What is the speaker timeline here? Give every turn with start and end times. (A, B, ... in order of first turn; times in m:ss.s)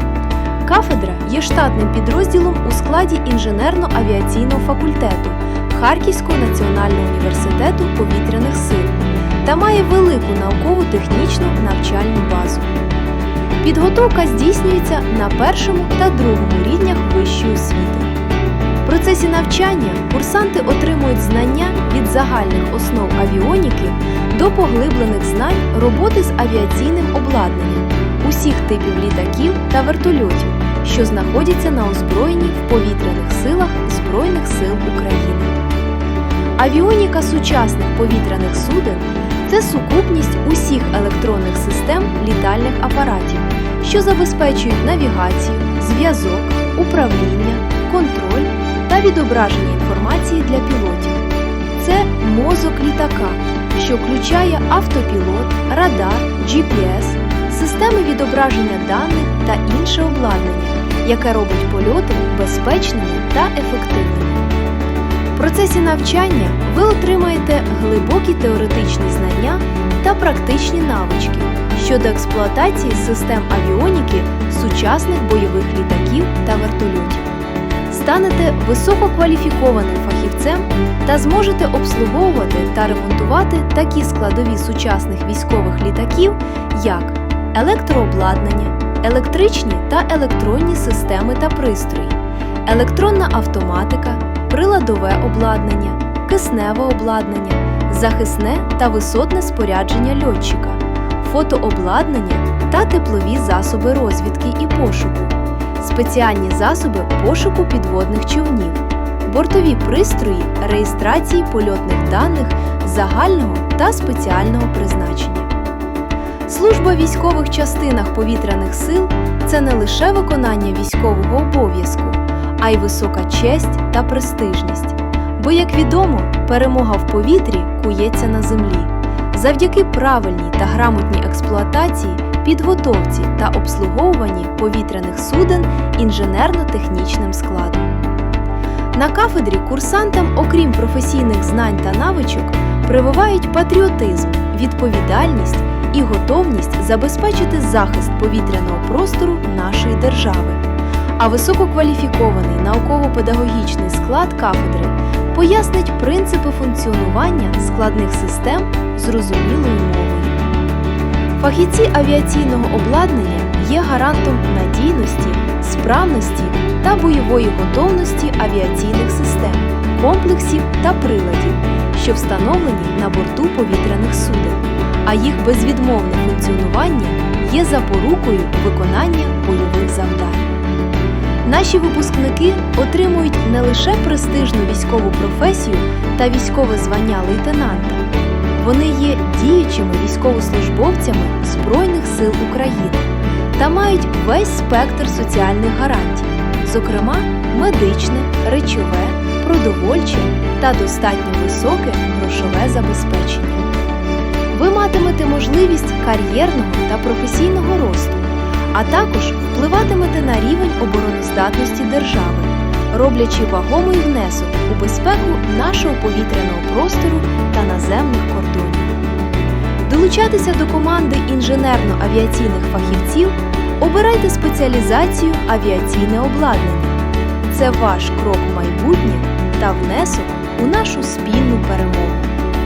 0:00.6-0:12.7 A
0:13.6-0:18.1 A
0:18.8-0:35.6 A
0:36.6-0:51.2 A
0:51.8-1:04.4 A
1:05.4-1:17.3 A
1:17.9-1:55.5 A
1:56.5-2:17.9 A
2:18.9-2:30.6 A
2:31.2-2:40.3 A
2:41.4-3:00.5 A
3:01.4-3:23.7 A
3:24.5-3:39.0 A
3:39.9-3:52.3 A